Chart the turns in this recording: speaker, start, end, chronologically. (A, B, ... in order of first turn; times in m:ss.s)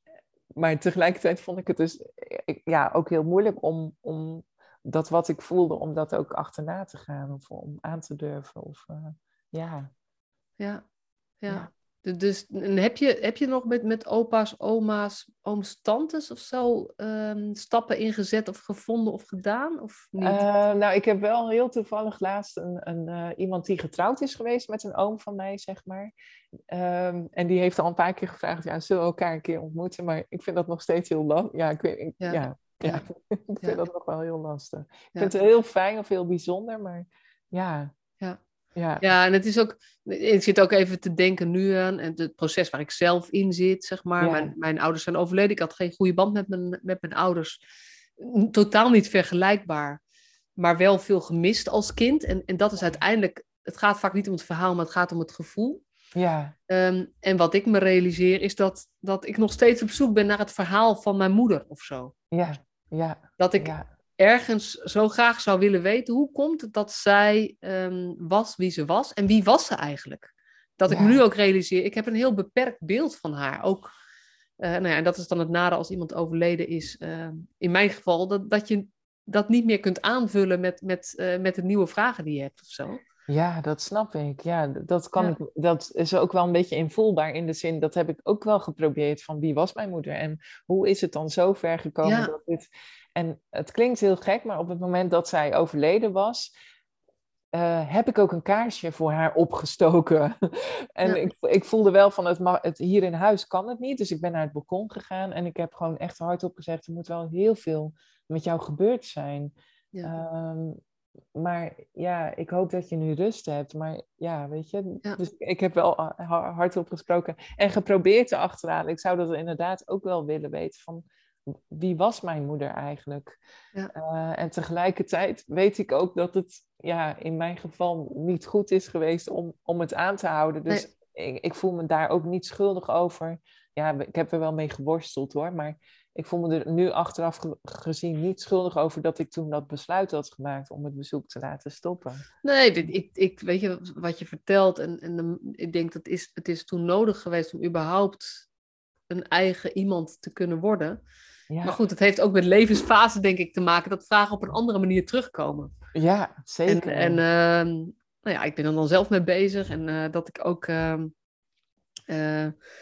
0:00.6-0:09.9 A
0:11.4-0:20.4 B
0:20.2-0:26.1 A
0:26.7-0:37.9 A
0:32.2-0:33.0 B
0:38.8-0:39.0 A
0:39.0-0:47.6 B
0:44.2-0:44.5 A
0:48.2-0:50.0 B
0:50.6-0:55.8 B
0:56.1-0:56.5 A
0:56.7-1:02.2 B
1:02.3-1:03.8 A
1:03.4-1:13.9 B
1:10.9-1:11.2 A
1:14.6-1:23.0 B
1:23.3-1:36.5 A
1:32.0-1:32.3 B
1:37.5-1:50.8 A
1:51.3-2:03.4 A
2:03.9-2:22.2 A
2:22.4-2:28.5 B
2:29.1-2:31.0 B
2:31.5-2:31.8 A
2:31.6-2:35.7 B
2:35.9-2:37.2 A
2:36.7-2:41.1 B
2:42.1-2:42.5 B